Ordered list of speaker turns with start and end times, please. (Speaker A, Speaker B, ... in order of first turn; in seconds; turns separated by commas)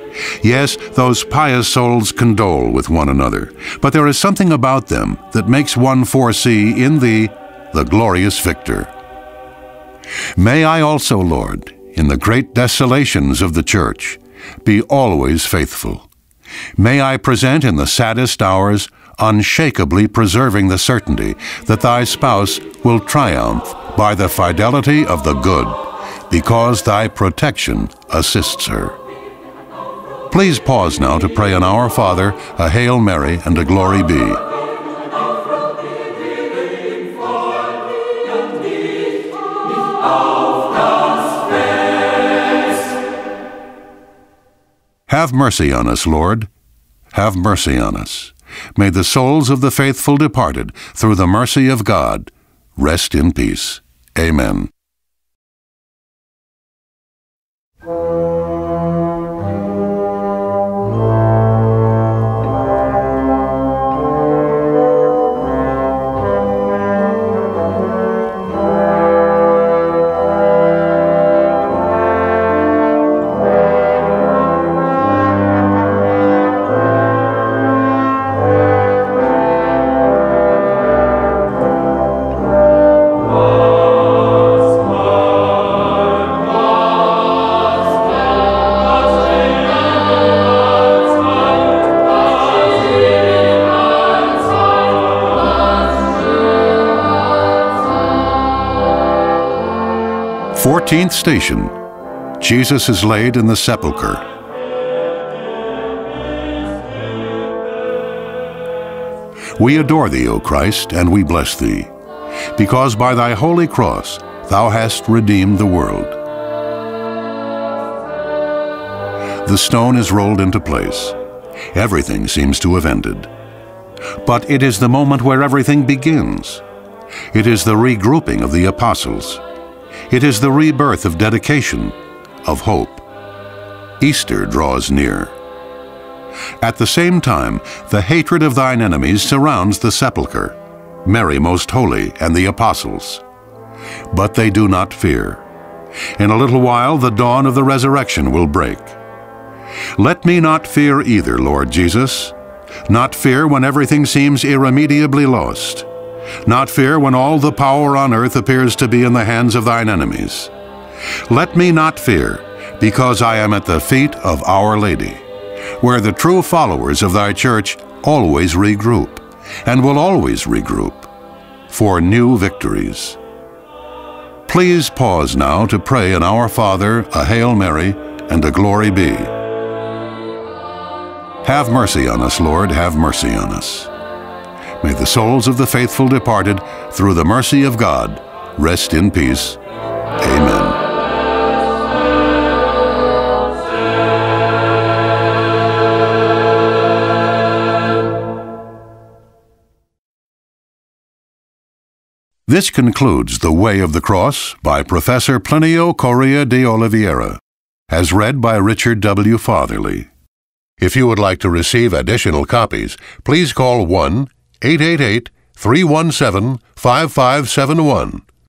Speaker A: 0.4-8.9, Speaker A: 10.3-16.1, Speaker A: 16.8-29.0, Speaker A: 30.3-34.4, Speaker A: 45.1-46.5, Speaker A: 47.1-54.7, Speaker A: 100.5-101.8, Speaker A: 102.4-104.2, Speaker A: 109.5-111.9, Speaker A: 112.5-116.2, Speaker A: 119.4-121.2, Speaker A: 121.7-123.3, Speaker A: 124.2-126.6, Speaker A: 127.3-129.4, Speaker A: 130.1-133.1, Speaker A: 134.0-135.3, Speaker A: 136.6-143.2, Speaker A: 144.1-145.4, Speaker A: 146.2-149.0, Speaker A: 149.9-152.3, Speaker A: 152.8-155.9, Speaker A: 156.4-160.5, Speaker A: 161.3-165.2, Speaker A: 165.8-171.1, Speaker A: 171.7-173.2, Speaker A: 174.5-179.3, Speaker A: 181.4-183.9, Speaker A: 184.8-189.6, Speaker A: 190.2-190.8, Speaker A: 202.5-210.1, Speaker A: 210.8-218.2